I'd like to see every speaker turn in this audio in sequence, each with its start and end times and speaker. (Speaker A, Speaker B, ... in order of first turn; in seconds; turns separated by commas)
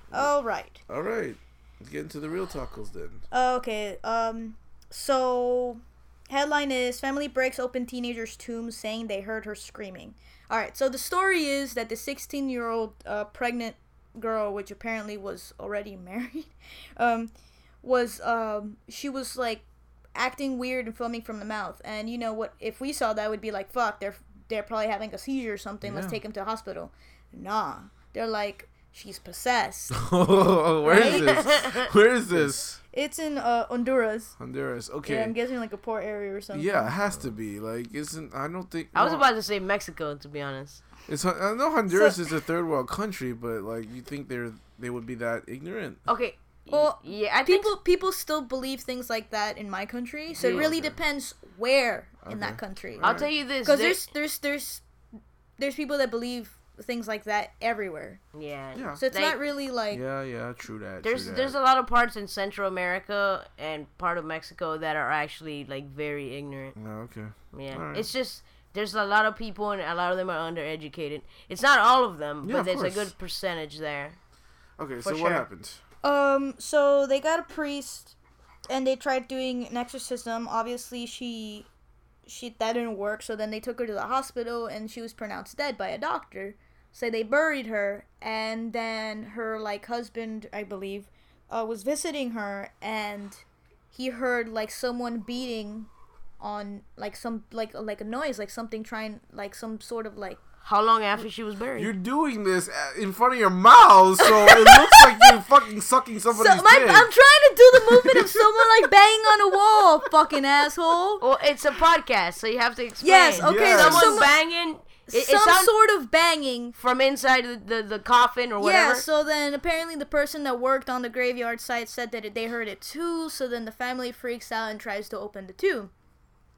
Speaker A: 0.1-0.8, Speaker B: 0.9-3.2, Speaker A: 3.3-17.3, Speaker A: 17.8-30.0, Speaker B: 25.8-26.2, Speaker B: 29.9-32.8, Speaker A: 30.8-31.4, Speaker C: 30.9-31.9, Speaker A: 32.9-34.3, Speaker B: 34.4-35.3, Speaker A: 35.0-36.9, Speaker B: 36.5-39.3, Speaker C: 38.9-40.8, Speaker B: 41.1-46.0, Speaker A: 41.9-42.1, Speaker C: 46.1-47.7, Speaker A: 46.7-54.8, Speaker C: 50.3-50.7, Speaker B: 50.4-51.0, Speaker B: 52.2-53.3, Speaker C: 53.0-54.1, Speaker A: 55.6-58.2, Speaker C: 58.3-59.4, Speaker B: 58.7-59.0, Speaker A: 59.0-60.0, Speaker B: 59.9-61.6, Speaker C: 61.0-66.7, Speaker B: 66.7-68.1, Speaker C: 67.5-74.2, Speaker B: 72.4-73.1, Speaker B: 74.8-75.8, Speaker C: 75.0-75.4, Speaker A: 76.0-78.1, Speaker A: 78.7-81.7, Speaker A: 82.2-95.9, Speaker A: 96.4-100.4, Speaker C: 100.6-101.9, Speaker B: 101.8-107.1, Speaker A: 104.8-105.3, Speaker A: 106.3-111.2, Speaker B: 107.7-108.6, Speaker C: 111.2-115.7, Speaker A: 113.0-114.3, Speaker B: 113.3-114.3, Speaker A: 115.1-116.8, Speaker C: 116.8-119.0, Speaker A: 118.6-125.9